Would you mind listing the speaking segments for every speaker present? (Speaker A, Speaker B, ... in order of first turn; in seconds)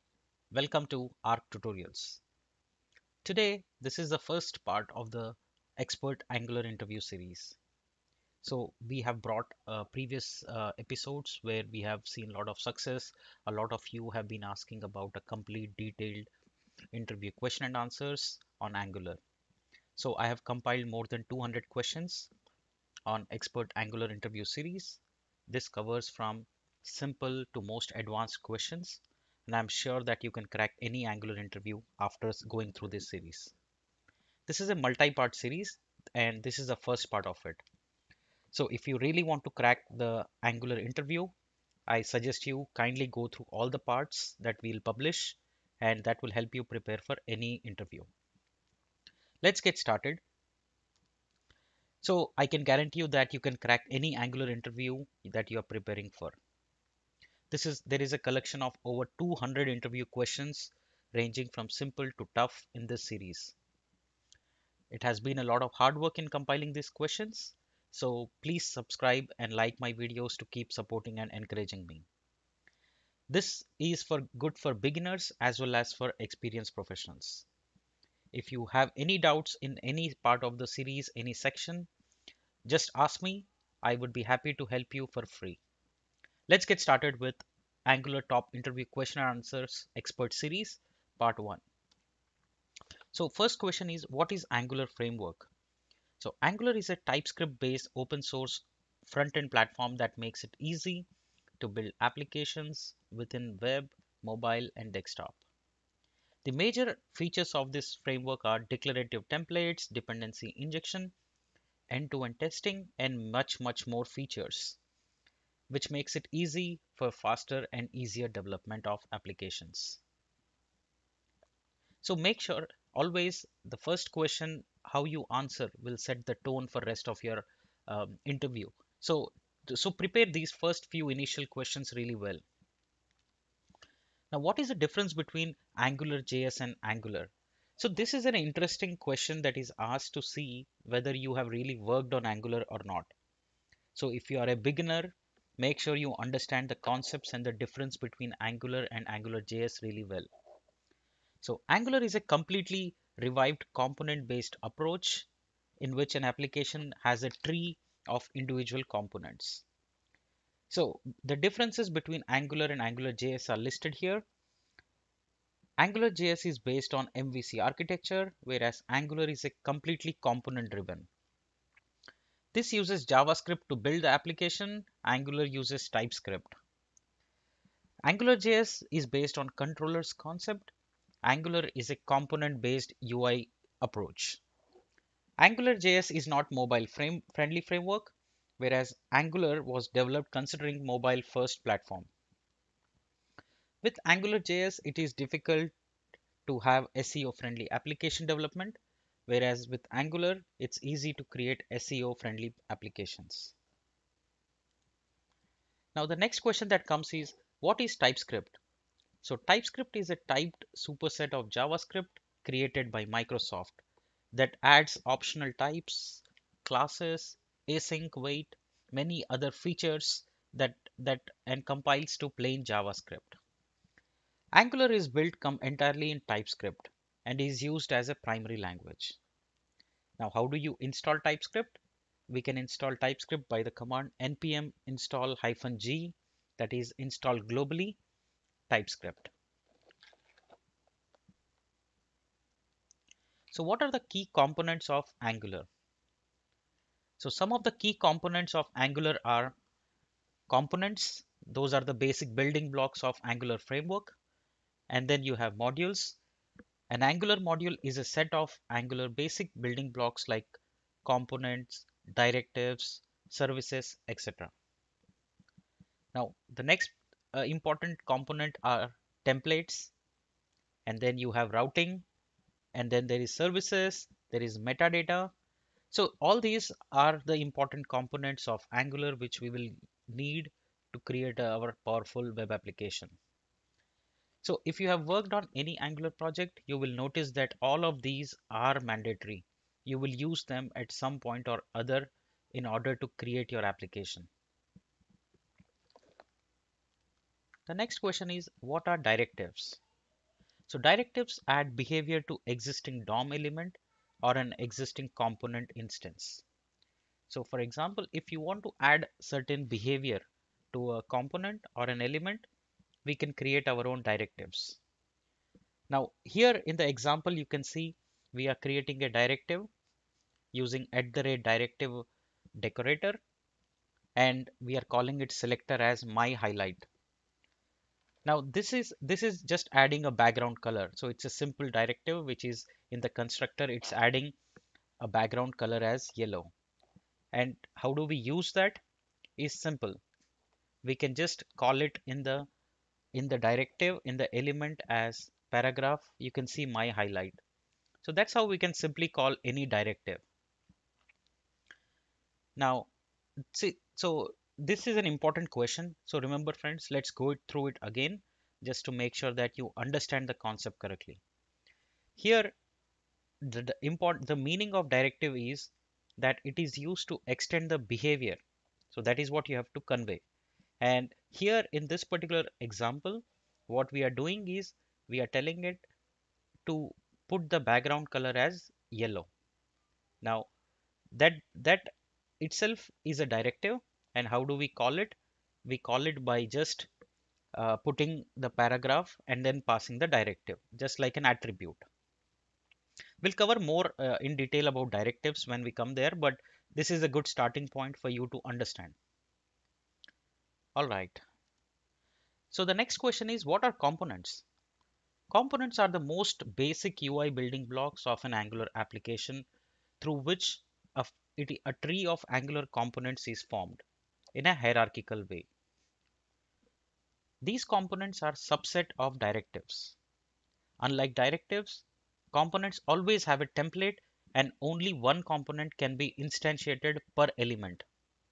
Speaker A: 0.5-2.2, 3.2-7.6, 8.4-16.3, 16.9-19.2, 20.0-22.3, 23.1-33.5, 34.5-37.6, 38.5-41.3, 41.9-48.1, 49.4-50.2, 52.0-56.4, 57.5-63.5, 64.9-72.0, 73.3-77.5, 78.3-81.9, 82.7-85.6, 86.5-91.6, 93.1-95.5, 96.2-101.1, 101.6-105.4, 106.4-111.1, 111.9-114.8, 115.7-120.0, 122.0-132.4, 134.3-143.1, 143.9-150.3, 151.4-155.3, 155.8-159.7, 160.7-164.2, 165.8-171.1, 172.5-176.5, 178.0-180.7, 181.2-184.4, 185.4-192.1, 193.8-195.7, 196.4-203.5, 205.9-208.6, 209.2-213.8, 214.3-223.4, 224.5-229.2, 230.2-238.0, 238.7-239.3, 243.5-245.7, 247.2-249.5, 250.5-254.2, 254.9-256.2, 256.9-264.5, 266.1-269.9, 270.9-272.1, 272.7-275.3, 275.9-283.2, 284.4-294.3, 297.7-299.8, 300.7-306.4, 307.3-312.5, 313.1-314.8, 315.9-319.7, 320.5-323.2, 324.2-326.9, 328.2-334.4, 335.0-336.5, 337.3-338.8, 339.4-340.0, 340.8-342.5, 343.1-347.4, 348.0-350.2, 352.6-352.9, 353.5-361.2, 362.2-362.6, 363.4-370.2, 370.8-375.9, 376.7-379.3, 380.2-380.5, 381.1-386.9, 387.5-391.8, 393.2-399.0, 400.8-401.2, 402.5-404.4, 405.3-409.5, 410.0-413.8, 414.4-415.5, 417.4-420.0, 420.8-427.8